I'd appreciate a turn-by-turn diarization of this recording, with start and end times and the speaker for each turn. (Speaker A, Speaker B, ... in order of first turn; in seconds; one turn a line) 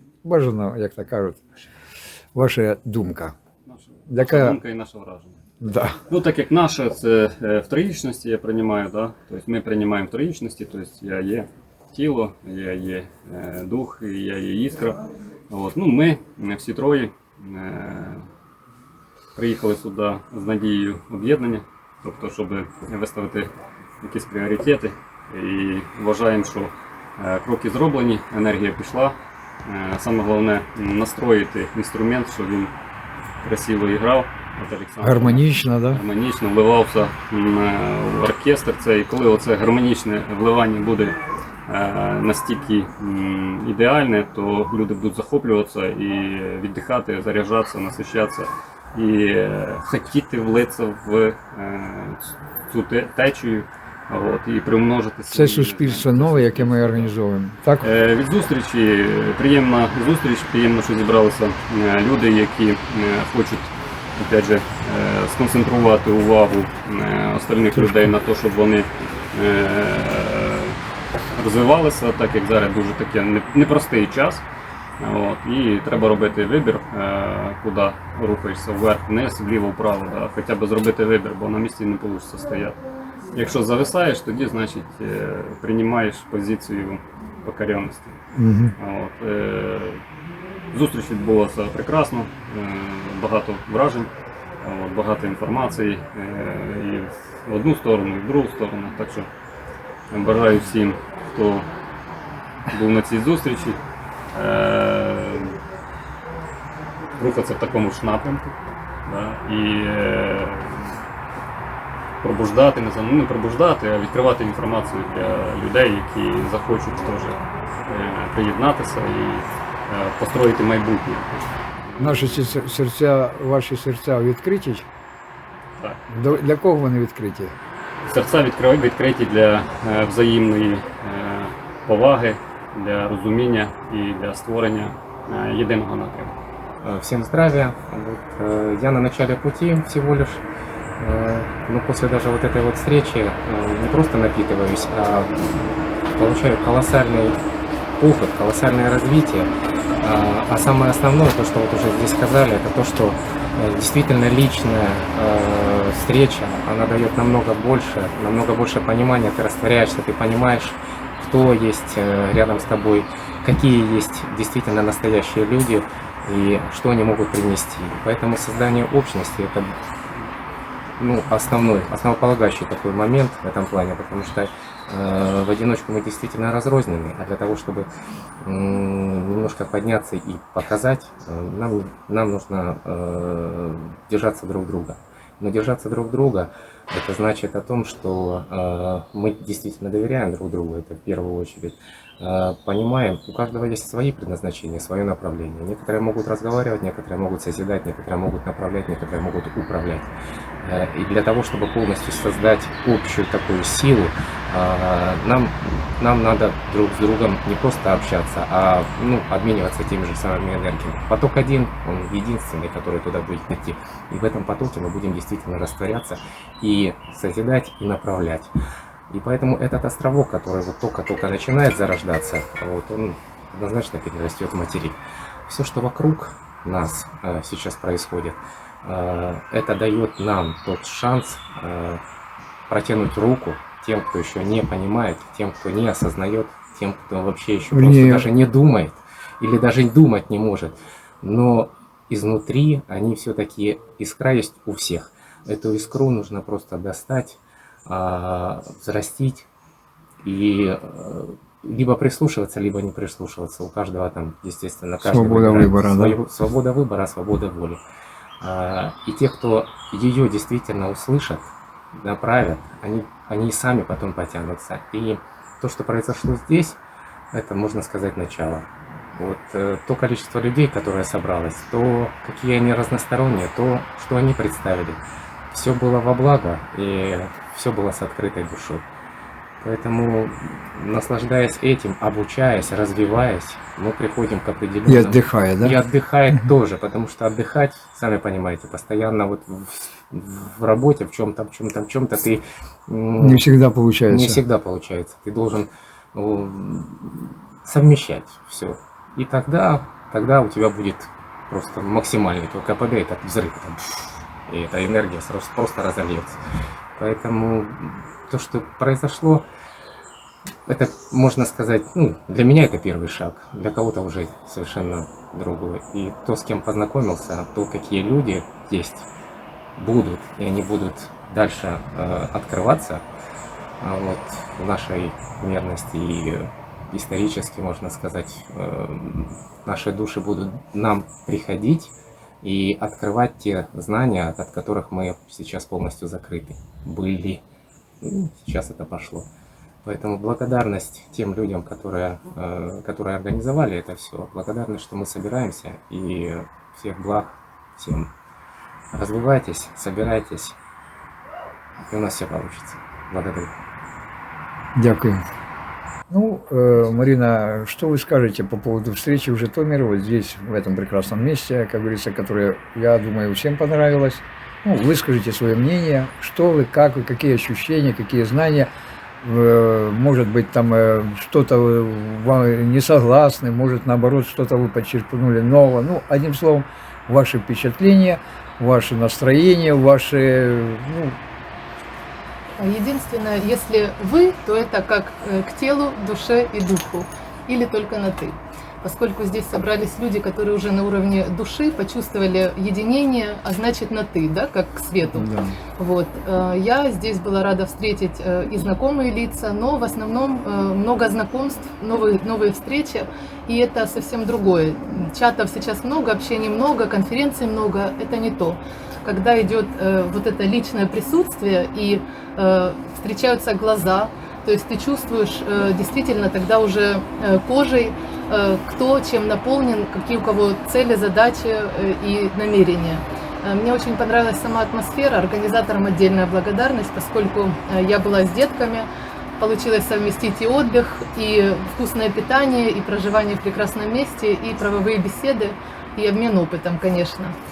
Speaker A: 0.2-1.4
Speaker A: 2.3-3.4
Speaker B: 3.7-5.4
Speaker A: 4.1-4.6
Speaker A: 5.6-6.0
Speaker B: 6.1-18.3
Speaker B: 19.3-32.7
Speaker B: 33.4-57.1
Speaker A: 35.0-36.0
Speaker A: 55.3-57.9
Speaker B: 57.8-70.8
Speaker A: 67.7-68.1
Speaker B: 71.3-74.4
Speaker B: 75.0-82.8
Speaker B: 83.3-88.2
Speaker A: 88.3-88.7
Speaker B: 88.8-90.0
Speaker B: 90.7-99.3
Speaker B: 100.1-101.7
Speaker B: 102.7-103.8
Speaker B: 104.3-105.5
Speaker B: 107.2-111.0
Speaker B: 112.2-122.3
Speaker A: 122.0-124.9
Speaker A: 126.1-127.6
Speaker B: 128.0-136.3
Speaker C: 136.8-140.4
Speaker C: 141.0-147.4
Speaker C: 148.0-149.5
Speaker C: 150.0-169.7
Speaker C: 171.0-177.9
Speaker C: 178.4-200.1
Speaker C: 200.6-218.5
Speaker C: 219.1-232.0
Speaker C: 232.7-249.5
Speaker A: 237.7-238.3
Speaker C: 250.2-257.8
Speaker A: 255.0-256.2
Speaker C: 258.4-266.8
Speaker C: 267.3-278.8
Speaker C: 279.6-293.4
Speaker A: 284.9-285.8
Speaker A: 293.2-294.4
Speaker C: 294.1-306.4
Speaker C: 306.9-309.4
Speaker C: 310.6-319.1
Speaker C: 319.8-323.0
Speaker C: 323.8-337.4
Speaker C: 338.0-339.3
Speaker C: 339.8-348.1
Speaker C: 348.9-350.6
Speaker C: 351.9-353.6
Speaker A: 354.8-355.2
Speaker A: 356.1-368.7
Speaker A: 369.2-381.2
Speaker D: 382.6-437.4
Speaker A: 395.1-395.6